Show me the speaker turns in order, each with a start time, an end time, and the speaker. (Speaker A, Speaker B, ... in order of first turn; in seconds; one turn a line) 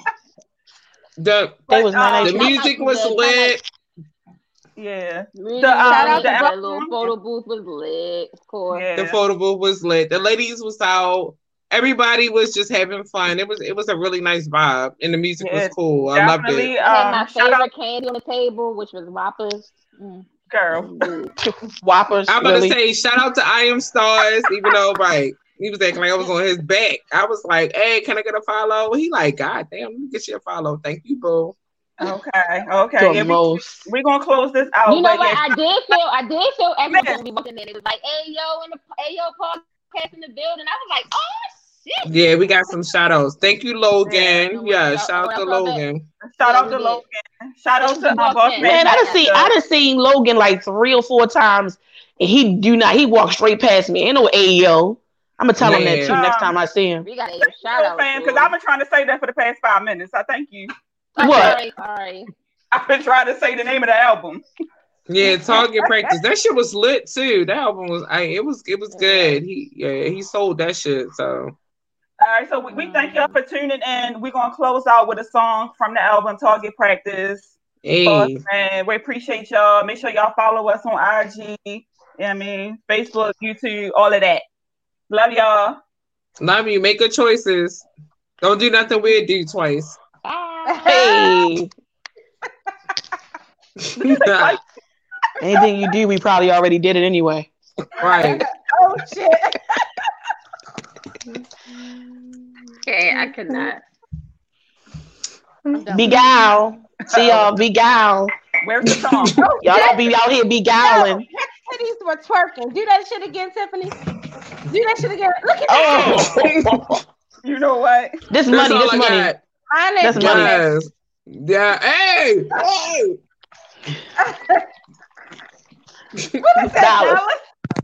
Speaker A: 1.2-1.7
Speaker B: 1.7-2.5
Speaker C: 1.7-2.5
Speaker A: 2.2-3.6
Speaker D: 2.2-3.5
Speaker B: 4.8-7.0
Speaker D: 5.3-8.9
Speaker E: 5.9-6.5
Speaker B: 8.7-9.2
Speaker A: 8.9-16.7
Speaker B: 15.4-17.7
Speaker D: 16.8-21.3
Speaker B: 20.5-21.1
Speaker C: 21.4-22.8
Speaker A: 22.3-31.5
Speaker B: 32.0-35.5
Speaker C: 33.0-33.9
Speaker D: 34.9-42.1
Speaker B: 36.9-37.2
Speaker A: 42.0-46.0
Speaker B: 44.0-44.5
Speaker D: 44.5-45.8
Speaker B: 46.2-49.5
Speaker D: 46.4-47.0
Speaker D: 47.8-49.2
Speaker C: 48.6-57.0
Speaker A: 55.6-56.2
Speaker B: 55.7-56.5
Speaker D: 57.0-58.5
Speaker B: 57.4-60.7
Speaker D: 61.1-62.3
Speaker C: 61.2-61.6
Speaker B: 62.7-64.4
Speaker A: 65.1-71.5
Speaker D: 68.9-69.4
Speaker B: 72.2-77.5
Speaker D: 72.7-73.4
Speaker A: 77.8-78.4
Speaker B: 78.0-84.4
Speaker B: 85.1-85.8
Speaker A: 86.4-87.8
Speaker A: 88.4-90.0
Speaker D: 90.2-91.1
Speaker E: 90.7-91.4
Speaker C: 90.8-91.7
Speaker A: 93.8-94.5
Speaker B: 94.0-94.6
Speaker C: 95.4-97.5
Speaker A: 98.0-98.4
Speaker E: 98.0-100.0
Speaker D: 102.8-103.8
Speaker E: 103.1-103.7
Speaker E: 105.7-106.5
Speaker C: 105.9-108.3
Speaker B: 107.1-107.4
Speaker B: 108.6-109.4
Speaker E: 109.4-110.1
Speaker C: 109.6-111.2
Speaker E: 110.8-114.0
Speaker E: 114.7-116.3
Speaker C: 115.7-116.8
Speaker A: 115.9-116.9
Speaker B: 117.4-118.2
Speaker C: 118.3-119.3
Speaker A: 118.5-119.4
Speaker E: 119.7-120.7
Speaker C: 120.0-120.5
Speaker A: 120.1-123.2
Speaker E: 124.2-124.6
Speaker E: 126.4-127.4
Speaker C: 126.8-127.2